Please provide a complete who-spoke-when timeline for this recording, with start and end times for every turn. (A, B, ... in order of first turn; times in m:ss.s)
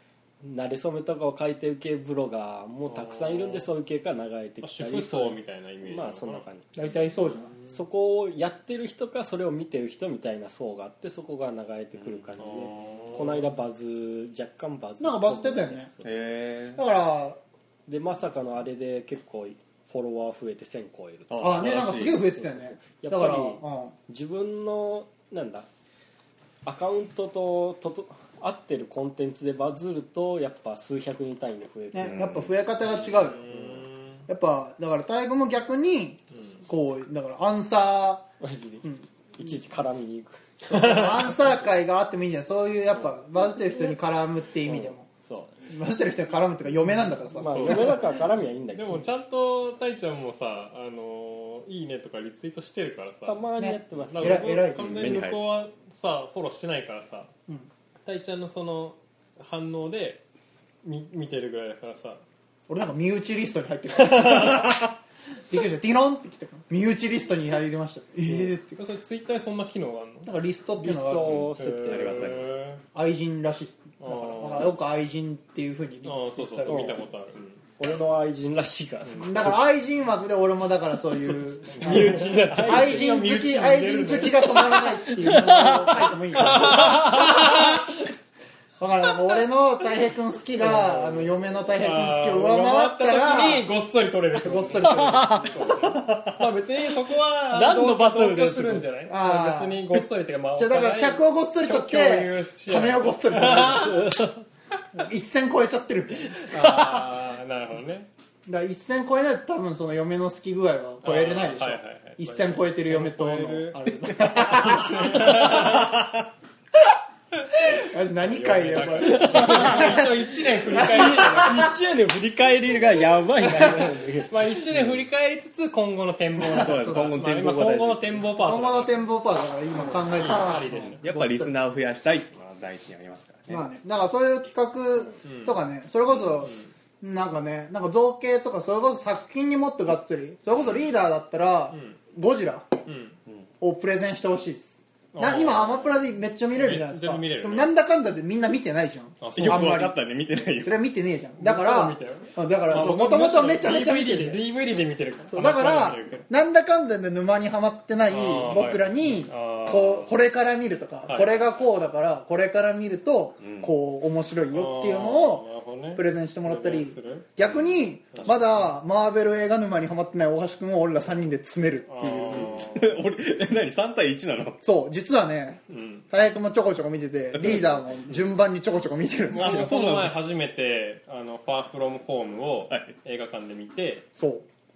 0:00.4-0:06.7 A
0:02.9-0:03.7 B
0:04.6-0:06.4 B
0:06.8-0:07.5 C
0:07.7-0:16.1 A
0:11.9-0:12.4 D
0:12.4-0:13.5 B
0:15.0-0:15.9 C
0:16.0-0:16.8 D
0:16.8-0:17.4 C
0:17.9-0:25.7 A
0:21.3-0:22.2 D
0:21.4-0:24.0 C
0:26.6-0:32.5 A
0:31.9-0:33.5 C
0:32.0-0:32.5 D
0:33.3-0:34.3 B
0:34.3-0:38.3 C
0:36.3-0:36.6 B
0:38.4-0:41.5 A
0:38.8-0:39.5 C
0:40.7-0:41.3 B
0:40.7-0:45.1 C
0:44.6-0:45.6 A
0:45.7-0:48.0 C
0:47.4-0:49.0 A
0:47.4-0:48.1 B
0:48.7-0:53.5 B
0:53.3-0:54.6 A
0:53.6-0:55.2 C
0:54.1-0:57.3 B
0:54.8-0:55.4 D
0:58.0-1:00.2 B
1:00.8-1:02.2 B
1:02.7-1:05.0 C
1:04.0-1:04.8 B
1:05.5-1:08.8 C
1:08.8-1:10.3 B
1:10.3-1:11.5 C
1:10.8-1:12.5 A
1:11.2-1:12.5 D
1:11.6-1:12.8 B
1:12.9-1:17.0 C
1:14.0-1:14.8 B
1:16.0-1:17.6 B
1:16.7-1:17.0 A
1:17.8-1:19.6 A
1:19.2-1:27.2 C
1:21.3-1:23.3 A
1:21.7-1:24.8 B
1:24.3-1:27.8 A
1:26.3-1:27.8 B
1:28.8-1:33.7 C
1:30.6-1:44.2 B
1:34.4-1:35.9 C
1:34.9-1:35.4 A
1:37.5-1:38.9 A
1:39.1-1:44.2 C
1:44.9-1:46.9 C
1:46.5-1:48.1 B
1:48.5-1:55.8 C
1:51.0-1:56.0 B
1:57.7-2:01.7 C
1:58.2-2:01.8 B
1:59.0-2:00.1 A
2:00.7-2:04.4 A
2:04.3-2:09.0 B
2:06.5-2:07.2 C
2:06.5-2:08.2 D
2:08.4-2:11.5 C
2:09.8-2:11.0 B
2:11.0-2:13.7 D
2:13.5-2:22.7 C
2:15.2-2:15.6 B
2:16.5-2:16.7 B
2:21.7-2:22.0 B
2:22.9-2:23.2 B
2:23.6-2:34.4 C
2:25.1-2:26.0 B
2:26.6-2:27.7 B
2:29.2-2:29.8 B
2:29.4-2:30.8 D
2:31.4-2:36.3 B
2:35.3-2:52.6 C
2:38.1-2:40.1 B
2:41.1-2:41.6 B
2:43.4-2:43.7 D
2:44.5-2:47.3 B
2:48.1-2:48.4 B
2:51.9-2:53.0 B
2:52.3-2:54.6 D
2:54.6-2:59.7 C
2:55.7-2:56.1 B
2:57.4-2:57.7 D
2:59.3-3:04.1 B
2:59.3-3:00.2 D
3:02.7-3:03.0 D
3:04.2-3:04.5 C